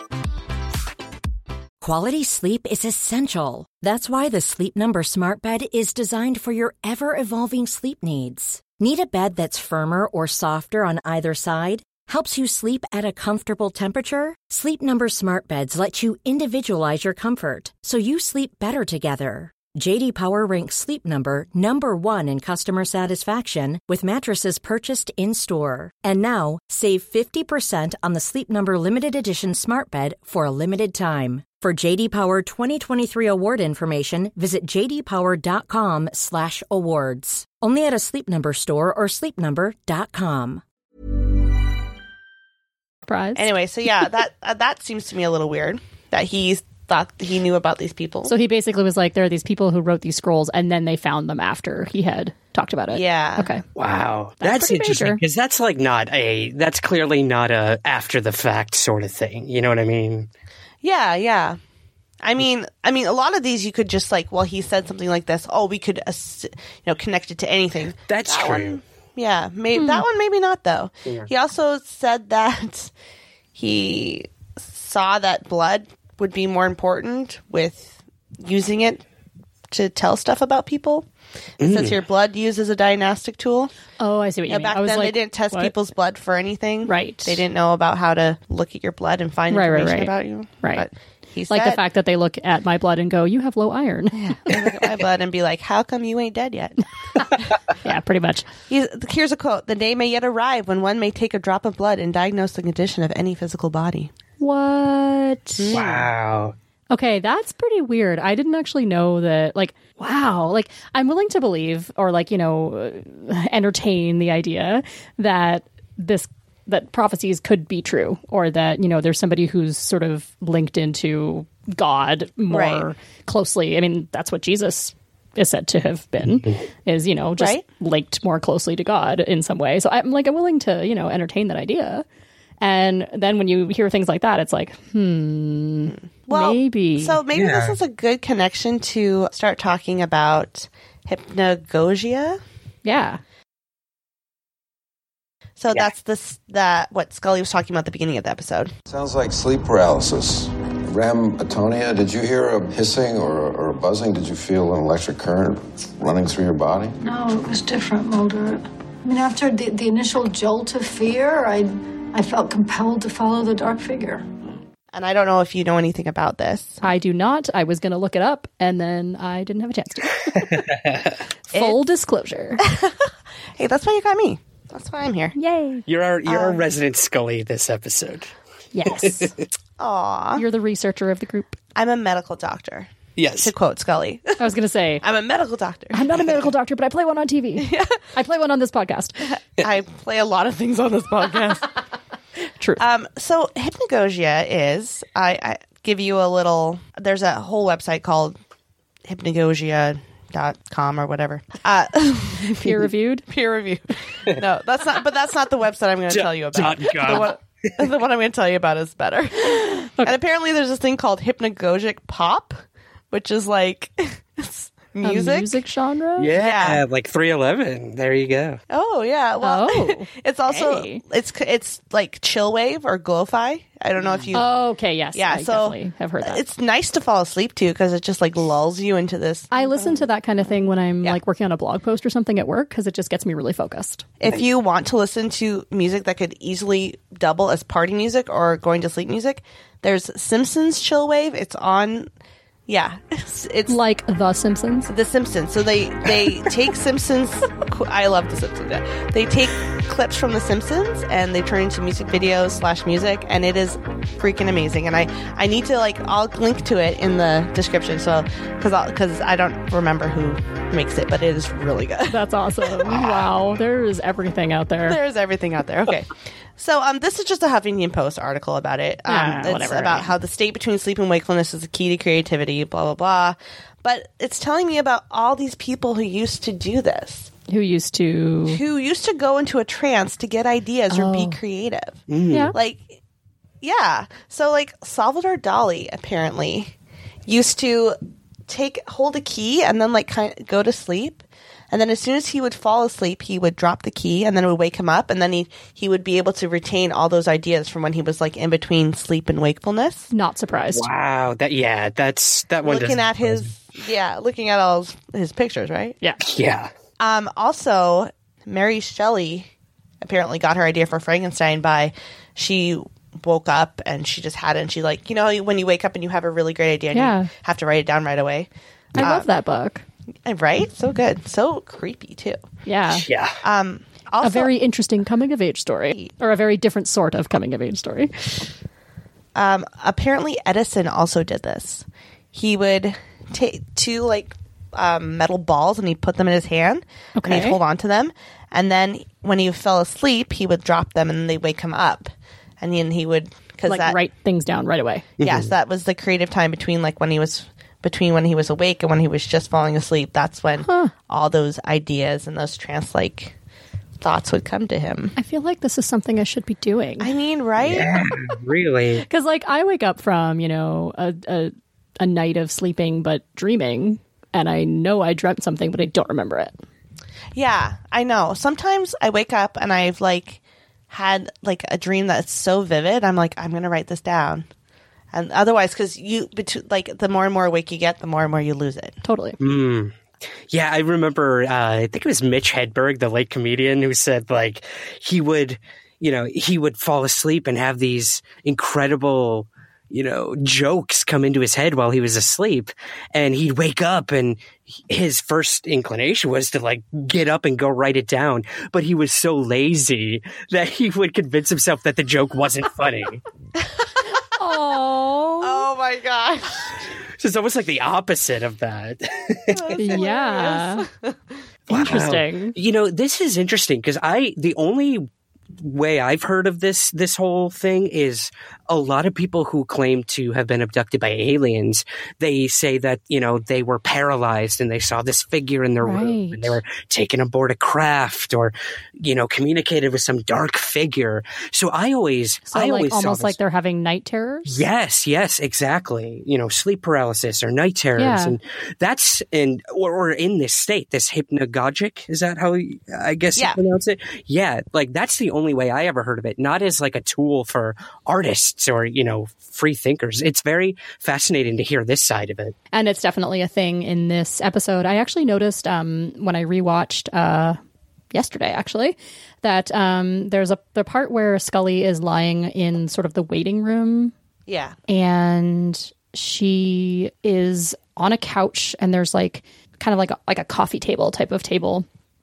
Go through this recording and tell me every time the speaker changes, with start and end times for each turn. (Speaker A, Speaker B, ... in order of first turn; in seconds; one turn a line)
Speaker A: 1.8-40.6
Speaker B: 43.1-43.5
Speaker C: 43.4-48.3
Speaker B: 48.3-53.6
Speaker C: 52.9-53.5
Speaker D: 53.8-60.3
Speaker B: 54.4-55.2
Speaker C: 60.8-61.6
Speaker C: 62.2-72.9
Speaker D: 68.1-68.8
Speaker B: 69.8-70.0
Speaker C: 73.5-79.0
Speaker C: 79.7-81.1
Speaker C: 81.6-83.7
Speaker D: 81.6-82.0
Speaker B: 84.0-85.7
Speaker C: 84.5-91.8
Speaker B: 86.8-87.4
Speaker B: 89.5-90.8
Speaker B: 91.5-94.3
Speaker C: 94.2-97.5
Speaker B: 97.8-98.5
Speaker C: 98.7-104.1
Speaker B: 104.4-105.8
Speaker C: 105.6-106.1
Speaker D: 105.7-106.5
Speaker B: 106.9-132.1
Speaker C: 122.5-122.9
Speaker C: 127.4-127.6
Speaker B: 132.6-137.2
Speaker C: 136.3-142.4
Speaker D: 137.3-137.8
Speaker B: 142.8-143.2
Speaker C: 145.6-148.7
Speaker E: 148.9-157.0
Speaker F: 157.0-164.3
Speaker C: 164.9-166.8
Speaker B: 166.8-170.6
Speaker D: 170.4-171.2
Speaker B: 171.5-172.6
Speaker C: 172.6-173.0
Speaker C: 173.6-175.3
Speaker B: 175.3-175.8
Speaker D: 175.9-178.3
Speaker C: 176.3-176.6
Speaker B: 178.7-179.3
Speaker D: 178.9-179.3
Speaker C: 179.8-180.4
Speaker B: 180.4-181.6
Speaker C: 181.8-184.5
Speaker D: 183.2-183.5
Speaker B: 184.4-185.0
Speaker C: 185.0-186.1
Speaker B: 185.9-189.2
Speaker C: 187.6-188.0
Speaker C: 189.3-191.8
Speaker C: 192.8-198.4
Speaker C: 199.1-215.6
Speaker B: 202.4-203.3
Speaker D: 206.1-207.9
Speaker B: 215.0-216.3
Speaker D: 216.2-218.6
Speaker C: 216.3-216.8
Speaker C: 218.7-224.5
Speaker B: 219.4-221.0
Speaker B: 224.3-226.4
Speaker C: 225.2-230.1
Speaker B: 229.5-234.1
Speaker C: 234.2-242.1
Speaker C: 242.7-243.8
Speaker B: 243.7-244.9
Speaker C: 244.9-263.2
Speaker B: 262.1-265.0
Speaker C: 264.9-277.3
Speaker B: 269.1-270.1
Speaker B: 277.5-278.6
Speaker C: 278.5-283.0
Speaker B: 280.9-281.4
Speaker D: 282.1-282.6
Speaker B: 282.3-282.6
Speaker C: 283.6-286.7
Speaker C: 287.3-300.1
Speaker B: 300.1-300.9
Speaker D: 300.7-303.5
Speaker C: 302.6-306.0
Speaker D: 306.2-306.7
Speaker C: 307.0-309.5
Speaker C: 310.0-319.3
Speaker B: 316.9-317.3
Speaker B: 319.0-319.8
Speaker C: 320.3-322.4
Speaker B: 322.7-323.1
Speaker D: 322.9-323.4
Speaker C: 323.4-324.5
Speaker B: 324.2-328.4
Speaker C: 329.4-344.0
Speaker B: 337.2-337.6
Speaker B: 343.7-345.1
Speaker D: 345.2-345.5
Speaker C: 345.2-353.4
Speaker B: 350.6-350.9
Speaker C: 354.0-355.1
Speaker B: 355.2-357.1
Speaker C: 357.0-357.9
Speaker D: 357.6-359.1
Speaker B: 359.0-366.6
Speaker C: 367.4-374.5
Speaker C: 375.1-379.0
Speaker B: 379.0-379.4
Speaker D: 379.4-380.0
Speaker D: 380.5-403.2
Speaker C: 403.6-403.9
Speaker B: 404.4-405.7
Speaker C: 405.4-406.7
Speaker D: 407.2-409.9
Speaker C: 409.5-411.2
Speaker B: 409.8-410.9
Speaker B: 411.7-412.6
Speaker D: 411.7-433.4
Speaker B: 425.8-426.6
Speaker B: 432.5-434.6
Speaker D: 434.5-452.6
Speaker B: 438.0-438.4
Speaker B: 452.7-457.6
Speaker B: 458.1-464.1
Speaker C: 464.5-464.8
Speaker B: 464.9-471.9